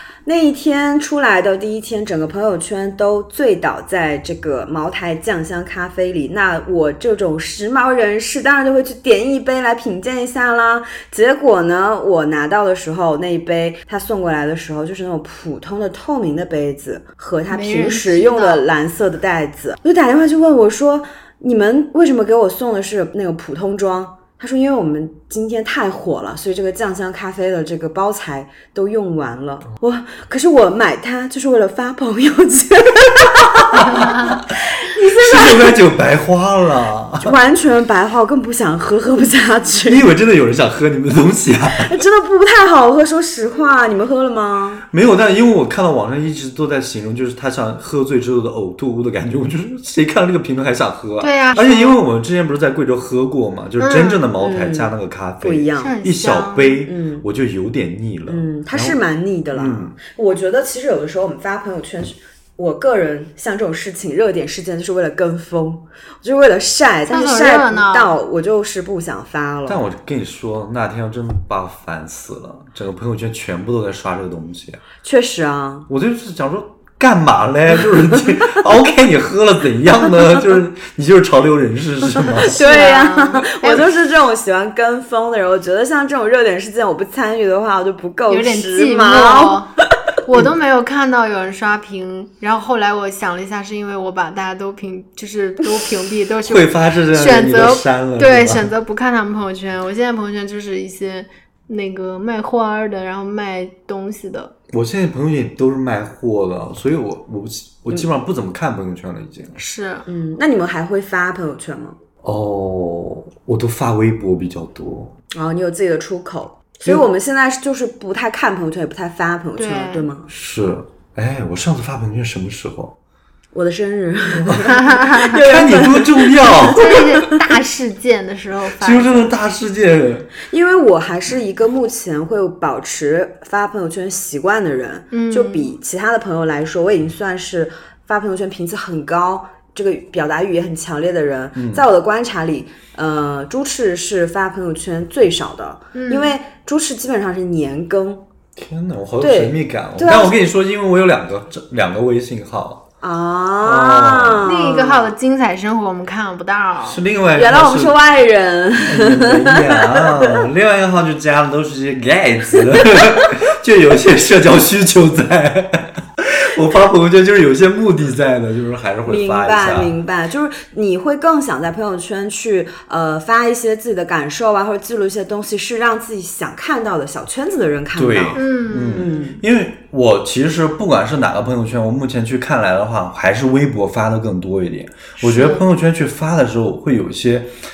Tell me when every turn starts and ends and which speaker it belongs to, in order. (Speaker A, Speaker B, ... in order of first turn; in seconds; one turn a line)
Speaker A: 0.2-35.7
Speaker B: 17.5-18.6
Speaker C: 33.7-37.3
Speaker A: 37.2-40.0
Speaker C: 39.8-41.9
Speaker A: 41.8-44.8
Speaker C: 44.9-59.0
Speaker B: 51.2-52.0
Speaker B: 53.8-54.2
Speaker A: 54.4-55.9
Speaker B: 55.8-56.8
Speaker A: 56.9-57.2
Speaker A: 58.3-69.8
Speaker C: 59.5-60.0
Speaker B: 67.1-68.1
Speaker C: 69.7-74.8
Speaker A: 75.0-75.9
Speaker C: 75.9-82.6
Speaker A: 82.4-89.6
Speaker B: 82.5-83.9
Speaker B: 88.3-89.7
Speaker B: 90.2-104.5
Speaker C: 96.4-98.7
Speaker C: 104.7-109.6
Speaker B: 109.6-110.0
Speaker A: 110.0-112.0
Speaker C: 112.2-115.1
Speaker A: 115.3-120.3
Speaker B: 119.6-120.1
Speaker C: 120.3-123.0
Speaker A: 123.5-127.4
Speaker C: 124.5-127.1
Speaker B: 124.7-125.4
Speaker B: 126.5-129.3
Speaker C: 128.8-130.3
Speaker A: 130.4-148.2
Speaker B: 135.1-135.7
Speaker C: 141.5-141.8
Speaker B: 145.9-146.3
Speaker C: 148.6-152.8
Speaker A: 149.2-150.4
Speaker A: 153.0-155.1
Speaker C: 153.6-154.5
Speaker B: 154.4-157.0
Speaker C: 156.8-158.0
Speaker A: 157.3-160.4
Speaker C: 158.8-169.9
Speaker A: 169.1-178.4
Speaker C: 177.9-187.5
Speaker B: 178.3-179.2
Speaker A: 178.9-179.4
Speaker B: 185.2-185.6